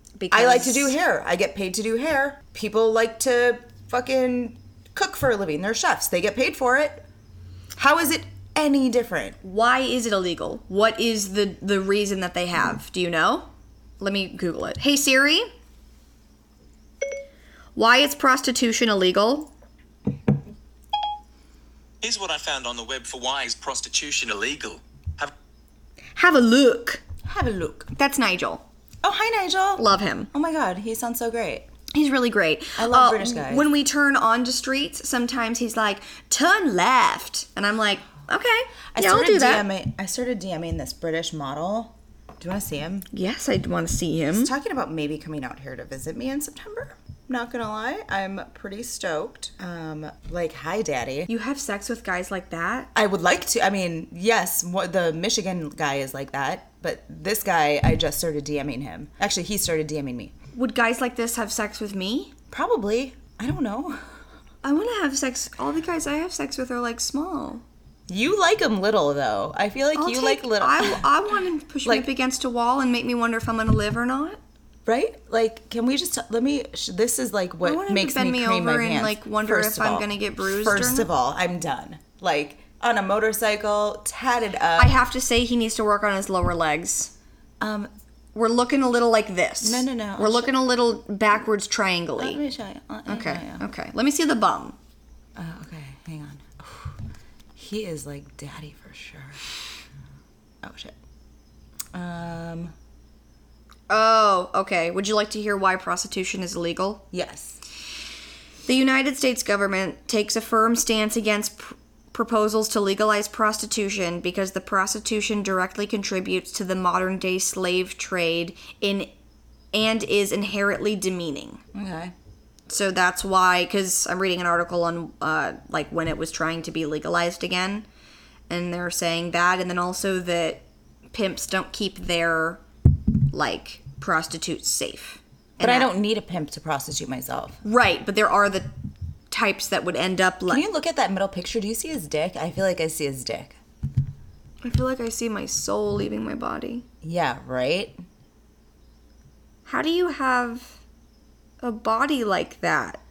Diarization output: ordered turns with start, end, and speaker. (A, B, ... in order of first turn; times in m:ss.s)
0:00.2-0:00.9 A
0:00.3-0:07.0 B
0:07.8-0:09.4 B
0:09.4-0:13.5 A
0:14.0-0:15.5 A
0:17.8-0:19.5 A
0:22.0-0:25.3 C
0:26.2-0:27.0 A
0:27.3-0:27.9 B
0:28.0-0:28.6 A
0:29.0-0:31.7 B
0:29.8-0:30.3 A
0:31.9-0:39.7 A
0:32.8-0:33.7 B
0:38.9-0:43.1 B
0:43.1-0:44.5 A
0:44.3-0:51.3 B
0:51.3-0:52.9 A
0:53.0-1:00.3 B
1:00.5-1:02.3 A
1:02.5-1:04.0 B
1:04.6-1:07.6 A
1:08.1-1:11.1 B
1:10.0-1:14.4 A
1:14.9-1:25.0 B
1:17.6-1:21.1 A
1:24.8-1:27.1 A
1:27.6-1:27.9 B
1:28.4-1:32.4 A
1:29.6-1:30.5 B
1:32.2-1:33.7 B
1:33.1-1:34.8 A
1:35.4-1:37.0 B
1:37.6-1:39.4 B
1:40.6-1:41.0 B
1:41.9-1:42.7 B
1:43.9-1:47.0 A
1:47.1-1:47.6 B
1:48.7-1:59.1 A
1:59.7-2:01.6 A
2:01.7-2:02.1 B
2:02.7-2:07.8 A
2:08.5-2:12.6 A
2:13.3-2:15.9 A
2:15.6-2:17.6 B
2:17.6-2:18.7 A
2:19.3-2:20.6 A
2:20.5-2:23.6 B
2:24.6-2:26.8 A
2:27.0-2:28.0 B
2:29.7-2:30.8 A
2:31.6-2:33.0 A